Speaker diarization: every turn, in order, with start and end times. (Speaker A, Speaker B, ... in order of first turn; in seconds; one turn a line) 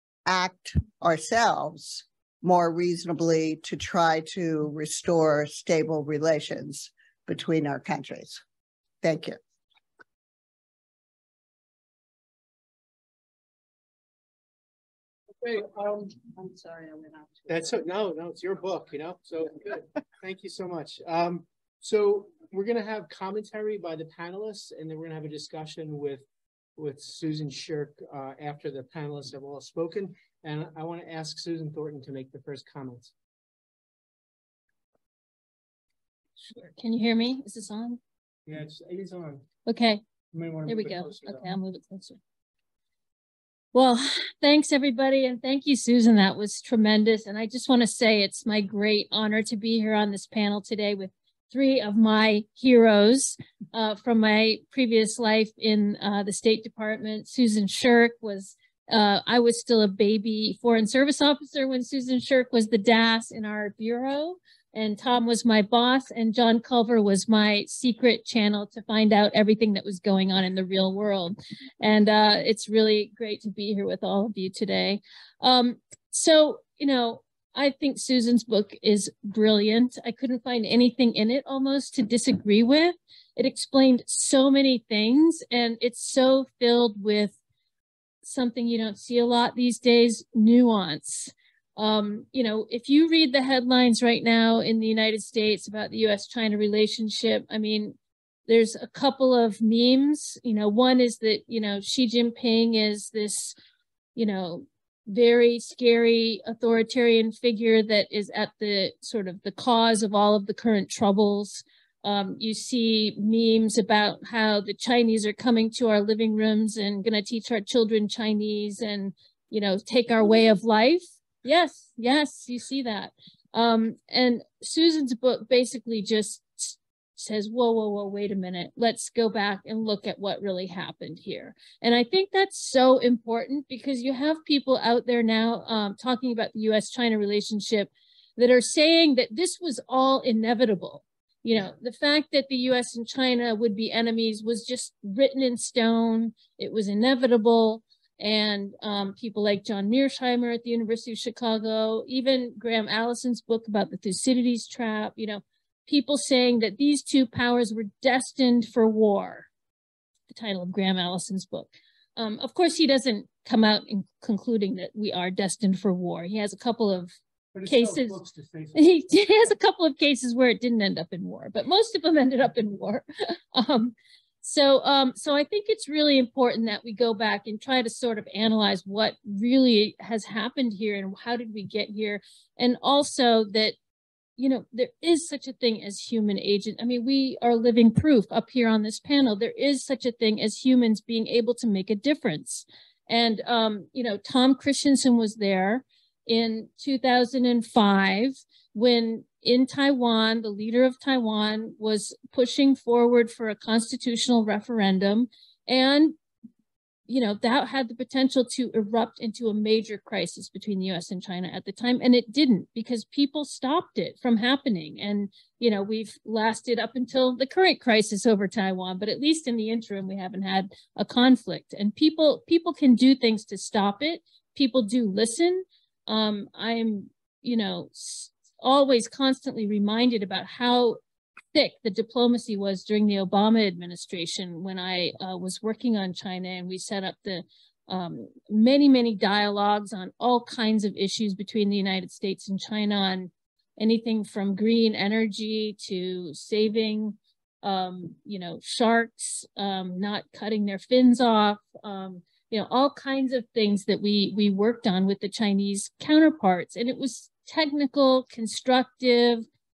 Speaker A: 0.3-8.4
Speaker A: 9.0-9.4
Speaker B: 15.4-16.0
Speaker A: 15.6-17.4
Speaker B: 17.5-26.2
Speaker B: 26.8-33.1
Speaker C: 36.4-38.0
Speaker B: 38.5-39.5
Speaker C: 39.7-40.0
Speaker B: 40.3-41.5
Speaker C: 40.7-42.2
Speaker C: 43.7-87.3
Speaker C: 88.2-98.0
Speaker C: 98.5-103.5
Speaker C: 104.2-159.5
Speaker C: 160.3-167.1
Speaker B: 167.5-169.1
Speaker C: 167.7-168.2
Speaker C: 168.8-183.8
Speaker C: 184.4-206.2
Speaker C: 207.1-231.0
Speaker C: 231.5-259.4